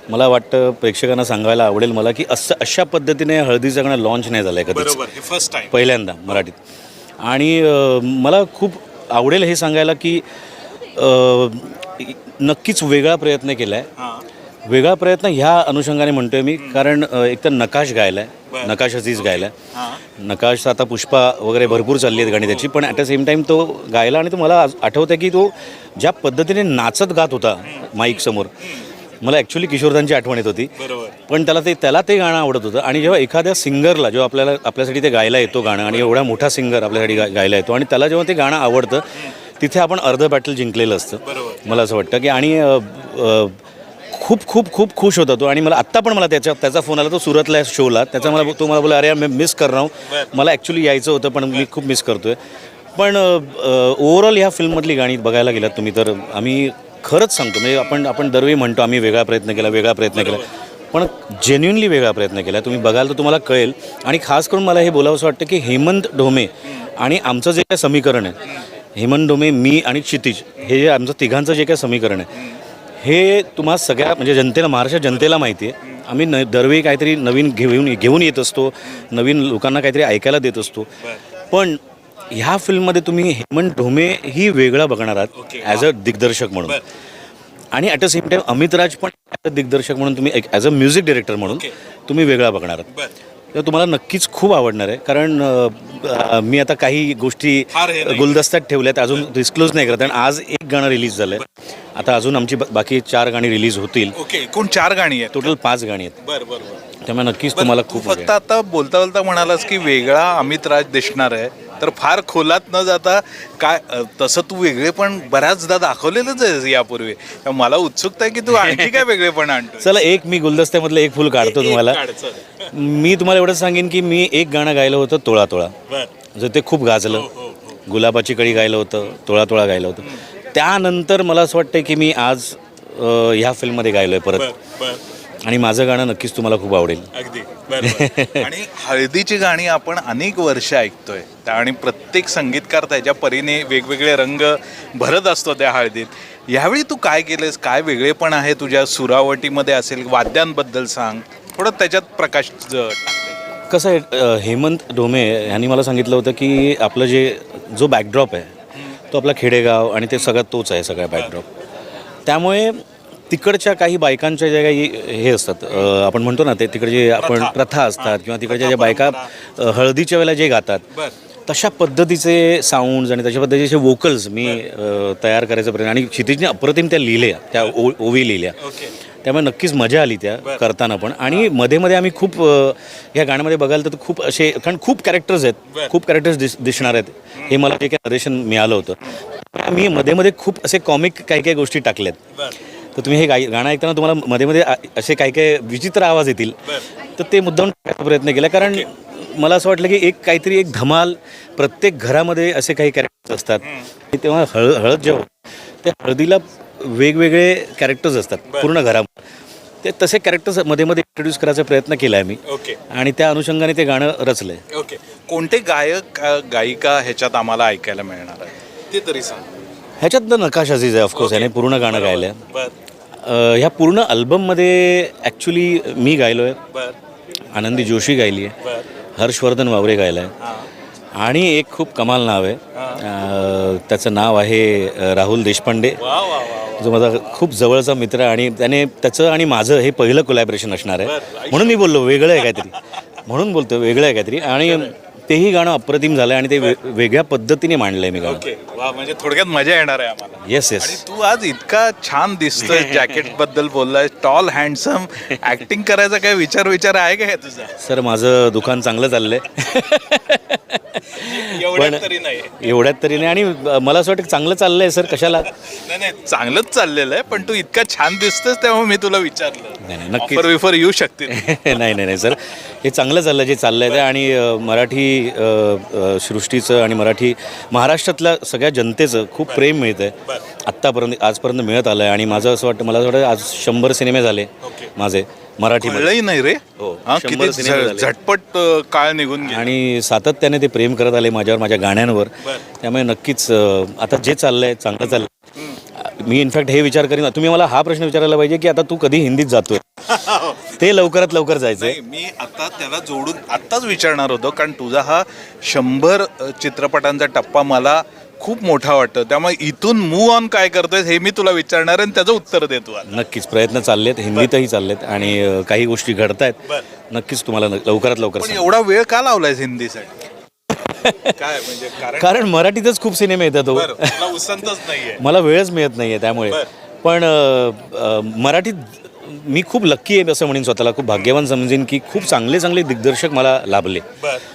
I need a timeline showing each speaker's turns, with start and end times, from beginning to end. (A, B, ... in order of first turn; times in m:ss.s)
0:00.1-0:05.1 A
0:04.7-0:06.4 B
0:05.7-0:06.6 A
0:07.2-0:10.2 A
0:11.0-0:13.9 A
0:14.0-0:14.2 B
0:14.7-0:19.5 A
0:16.6-0:16.8 B
0:18.5-0:20.0 B
0:20.2-0:28.6 A
0:21.7-0:22.9 B
0:27.7-0:28.8 B
0:29.2-0:43.6 A
0:30.8-0:31.2 B
0:35.9-0:36.1 B
0:41.2-0:41.6 B
0:44.1-0:52.4 A
0:48.2-0:48.6 B
0:50.1-0:50.3 B
0:53.0-1:12.3 A
0:59.5-1:00.5 B
1:13.0-1:20.9 A
1:21.5-1:26.8 A
1:25.4-1:25.9 B
1:27.7-1:32.9 A
1:31.4-1:31.7 B
1:33.5-1:44.2 A
1:37.7-1:38.4 B
1:44.1-1:45.5 B
1:45.3-1:46.2 A
1:46.2-1:46.8 B
1:47.0-1:48.3 A
1:47.5-2:00.0 B
1:58.5-1:59.0 A
1:59.8-2:02.0 A
2:01.4-2:02.7 B
2:02.7-2:05.8 A
2:06.3-2:07.3 A
2:07.1-2:07.8 B
2:07.9-2:14.5 A
2:14.4-2:15.0 B
2:15.4-2:17.1 A
2:17.1-2:33.4 B
2:17.7-2:18.5 A
2:33.7-2:38.5 A
2:39.1-2:41.5 A
2:42.3-2:50.9 A
2:47.2-2:49.3 B
2:51.5-2:58.6 A
2:58.6-2:58.9 B
2:59.2-3:12.2 A
3:05.7-3:05.9 B
3:13.0-3:16.6 A
3:17.2-3:25.3 A
3:18.6-3:18.8 B
3:23.6-3:23.9 B
3:25.8-3:29.2 A
3:29.8-3:34.6 A
3:32.5-3:32.8 B
3:34.7-3:39.5 B
3:40.0-3:42.4 A
3:41.2-3:42.7 B
3:43.2-3:46.6 A
3:47.5-3:48.6 A
3:48.6-3:48.9 B
3:49.2-3:50.3 A
3:50.4-3:50.7 B
3:51.2-3:56.2 A
3:52.8-3:53.0 B
3:56.0-3:57.2 B
3:56.8-4:08.4 A
4:01.0-4:02.7 B
4:04.6-4:04.9 B
4:08.2-4:17.8 B
4:10.4-4:11.0 A
4:12.7-4:13.1 A
4:17.8-4:25.5 A
4:21.1-4:22.8 B
4:25.2-4:31.8 B
4:29.8-4:30.5 A
4:31.3-4:46.1 A
4:44.6-4:44.9 B
4:45.8-4:49.7 B
4:46.8-4:48.1 A
4:49.4-4:55.3 A
4:56.0-4:59.8 A
5:00.1-5:01.0 B
5:00.8-5:02.0 A
5:01.8-5:13.2 B
5:13.1-5:18.7 A
5:18.4-5:20.2 B
5:20.8-5:21.4 A
5:21.3-5:22.5 B
5:22.1-5:24.4 A
5:23.7-5:25.2 B
5:25.2-5:34.1 A
5:34.2-5:34.4 B